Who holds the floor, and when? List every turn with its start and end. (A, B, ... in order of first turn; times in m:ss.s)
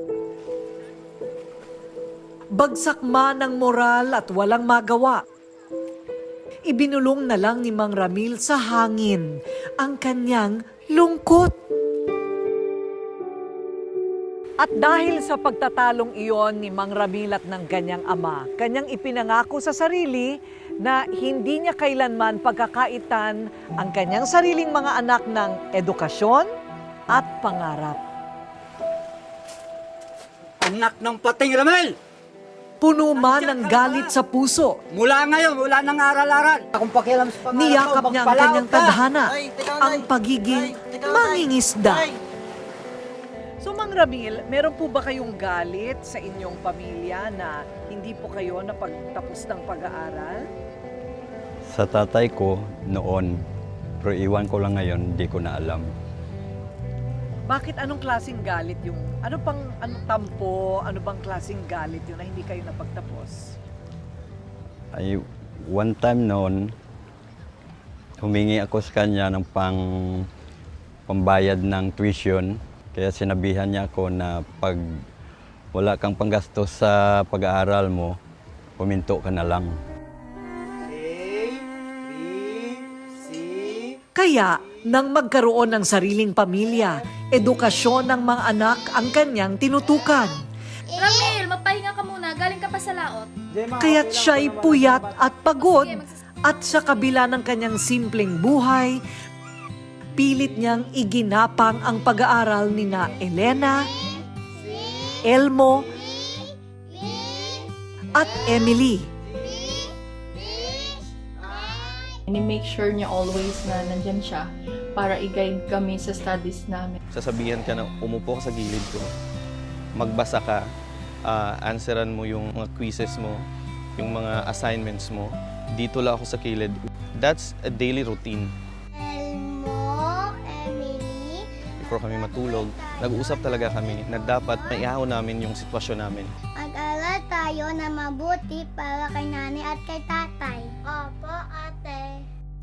0:02.5-0:05.2 A
0:06.7-0:11.5 A
0:14.6-0:26.5 A
0:27.1-0:28.0 A
0:30.6-0:31.9 B
0:32.8-0:34.8 A
0:34.9-0:39.6 B
0:37.5-0:42.1 A
0:40.8-0:41.1 B
0:43.6-0:50.4 A
0:51.7-0:53.4 C
0:54.0-0:55.9 C
0:57.5-1:03.5 A
1:05.0-1:06.7 C
1:08.2-1:10.2 C
1:11.1-1:14.8 C
1:15.7-1:18.2 C
1:18.8-1:19.7 C
1:20.9-1:22.8 B
1:23.3-1:23.7 D
1:24.1-1:30.4 A
1:30.9-1:31.4 D
1:31.0-1:33.3 E
1:33.5-1:34.0 B
1:33.8-1:39.0 A
1:35.6-1:36.1 E
1:40.2-1:43.9 A
1:43.9-1:45.3 D
1:45.2-1:45.9 A
1:45.9-1:48.7 D
1:48.1-1:49.1 A
1:49.4-1:52.2 D
1:52.3-1:57.0 F
1:57.1-1:59.1 G
2:00.0-2:00.6 G
2:01.2-2:03.4 G
2:04.0-2:08.5 G
2:09.0-2:11.5 D
2:11.8-2:16.3 G
2:12.1-2:14.9 D
2:16.6-2:22.2 D